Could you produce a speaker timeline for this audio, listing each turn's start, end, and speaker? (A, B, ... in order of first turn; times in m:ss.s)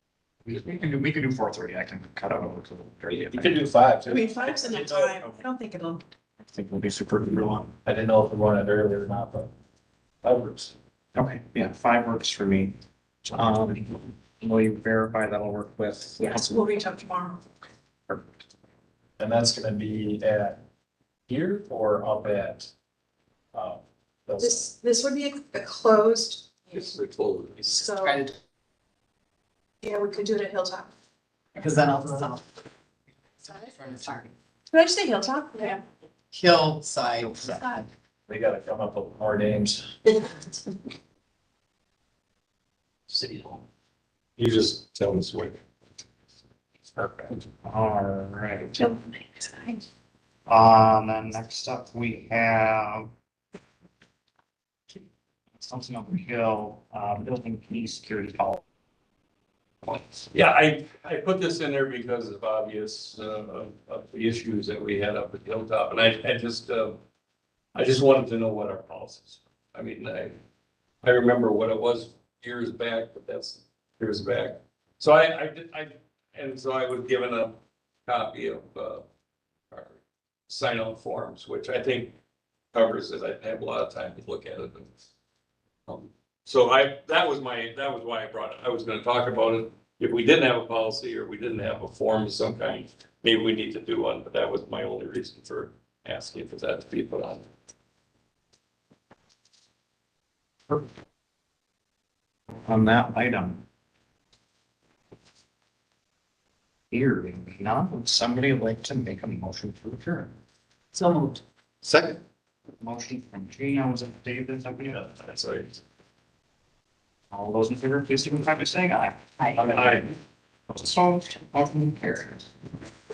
0:00.4-0:03.6 A
0:03.1-0:05.2 B
0:04.1-0:06.0 C
0:06.4-0:07.7 A
0:07.8-0:09.5 B
0:10.2-0:10.7 B
0:11.1-0:16.6 A
0:16.2-0:17.4 C
0:18.1-0:18.4 A
0:19.2-0:20.6 B
0:21.3-0:22.7 B
0:23.5-0:24.7 B
0:24.4-0:27.0 C
0:26.7-0:27.8 D
0:27.6-0:28.3 C
0:27.9-0:28.3 E
0:29.8-0:30.9 C
0:31.5-0:32.6 E
0:33.4-0:34.3 E
0:34.7-0:35.8 C
0:36.3-0:37.8 E
0:37.4-0:37.8 C
0:38.3-0:39.9 B
0:40.0-0:40.7 C
0:43.1-0:43.6 D
0:44.4-0:45.6 D
0:47.0-0:48.8 A
0:48.8-0:49.8 C
0:50.5-0:53.1 A
0:55.5-0:58.6 A
0:59.8-1:00.3 A
1:00.3-1:07.0 D
1:07.7-1:10.3 D
1:11.0-1:19.0 D
1:19.7-1:22.1 D
1:22.7-1:24.9 D
1:25.9-1:37.4 D
1:42.6-1:43.6 A
1:46.9-1:50.3 A
1:50.9-1:51.4 E
1:52.8-1:55.2 A
1:55.0-1:55.8 D
1:57.3-2:00.1 A
1:59.6-2:00.1 D
2:00.7-2:02.5 A